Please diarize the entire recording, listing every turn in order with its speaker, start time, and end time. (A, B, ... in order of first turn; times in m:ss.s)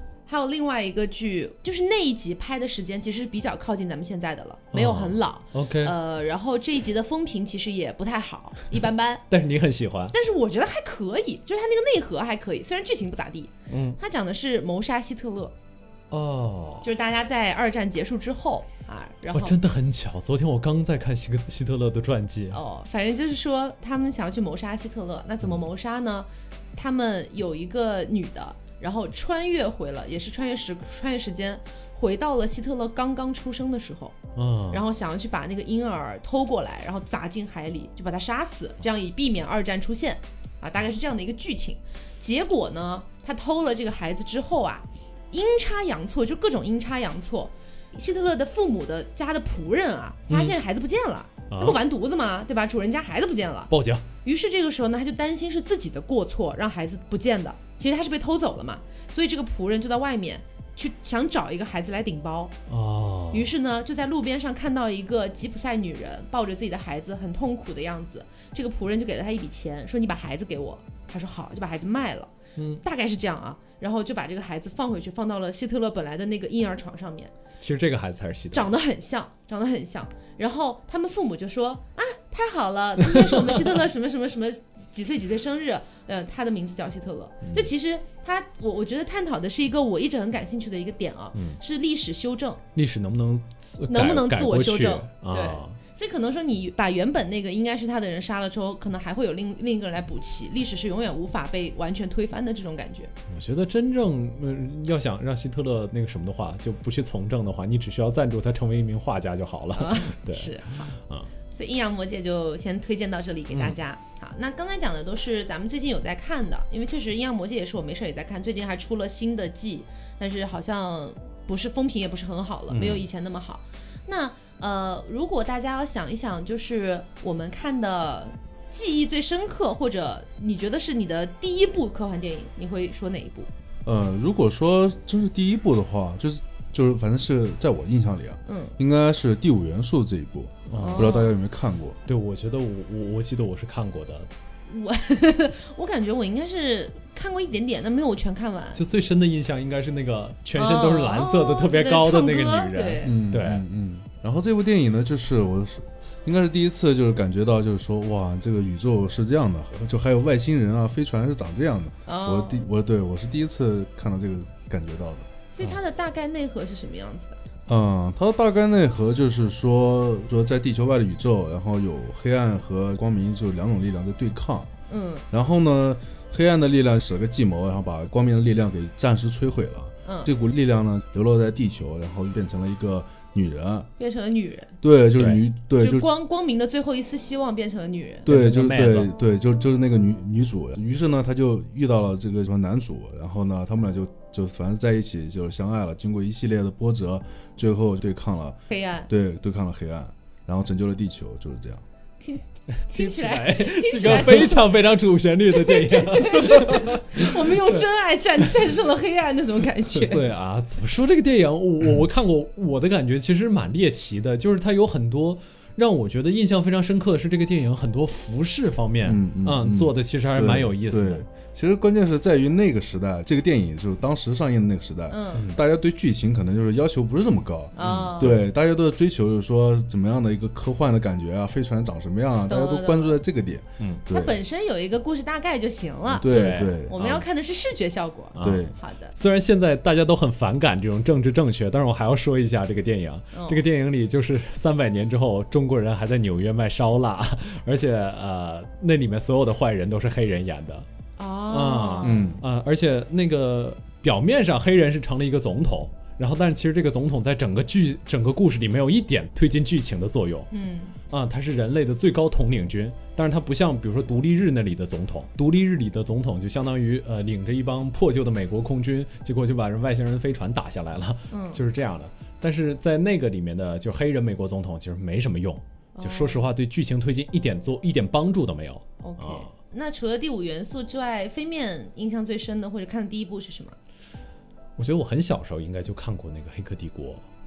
0:00.3-0:09.2 A
0:04.7-0:05.9 B
0:09.3-0:10.1 B
0:10.1-0:15.5 A
0:13.7-0:14.0 B
0:16.1-0:16.9 B
0:16.8-0:19.6 A
0:19.3-0:22.6 B
0:22.5-0:34.2 A
0:34.3-0:34.8 B
0:34.7-0:53.7 A
0:50.3-0:50.6 B
0:51.5-0:51.8 B
0:53.7-0:54.1 B
0:54.2-1:02.5 A
1:02.7-1:03.5 B
1:03.3-1:17.3 A
1:12.6-1:12.8 B
1:17.6-1:18.7 B
1:18.5-1:32.6 A
1:23.1-1:23.8 B
1:27.4-1:27.7 B
1:31.3-1:31.6 B
1:32.7-1:35.8 B
1:33.9-1:43.1 A
1:43.3-1:51.3 B
1:49.7-1:51.0 A
1:51.5-2:13.5 A
1:53.5-1:53.8 B
2:02.7-2:03.1 B
2:13.8-2:22.0 C
2:18.4-2:18.7 A
2:20.7-2:21.2 B
2:20.7-2:21.3 A
2:22.0-2:24.3 B
2:24.7-2:28.8 A
2:28.7-2:33.6 B
2:30.6-2:33.1 A
2:33.0-2:45.3 C
2:42.1-2:42.7 A
2:45.5-2:47.4 A
2:47.7-2:54.7 C
2:54.9-2:55.2 A
2:55.3-3:03.9 C
3:00.0-3:00.3 A
3:04.0-3:04.7 A
3:04.8-3:06.1 C
3:05.2-3:05.4 B
3:05.8-3:08.3 A
3:08.2-3:09.1 B
3:08.2-3:21.8 C
3:18.7-3:19.1 A
3:22.2-3:24.7 A
3:22.9-3:27.8 B
3:25.5-3:30.2 A
3:30.0-3:41.2 B
3:39.0-3:54.4 C
3:45.1-3:45.4 A
3:47.8-3:48.4 A
3:47.8-3:48.4 B
3:52.5-3:53.2 A
3:54.1-3:59.1 A
3:56.2-3:57.0 C
3:56.2-3:57.2 B
3:58.4-4:10.8 B
3:58.4-3:58.7 C
4:03.3-4:03.6 A
4:11.2-4:12.2 A
4:11.5-4:20.5 B
4:12.0-4:12.4 C
4:20.5-4:20.9 A
4:21.1-4:39.5 B
4:31.3-4:31.6 A
4:36.0-4:36.4 A
4:39.0-4:43.8 A
4:44.8-4:47.2 B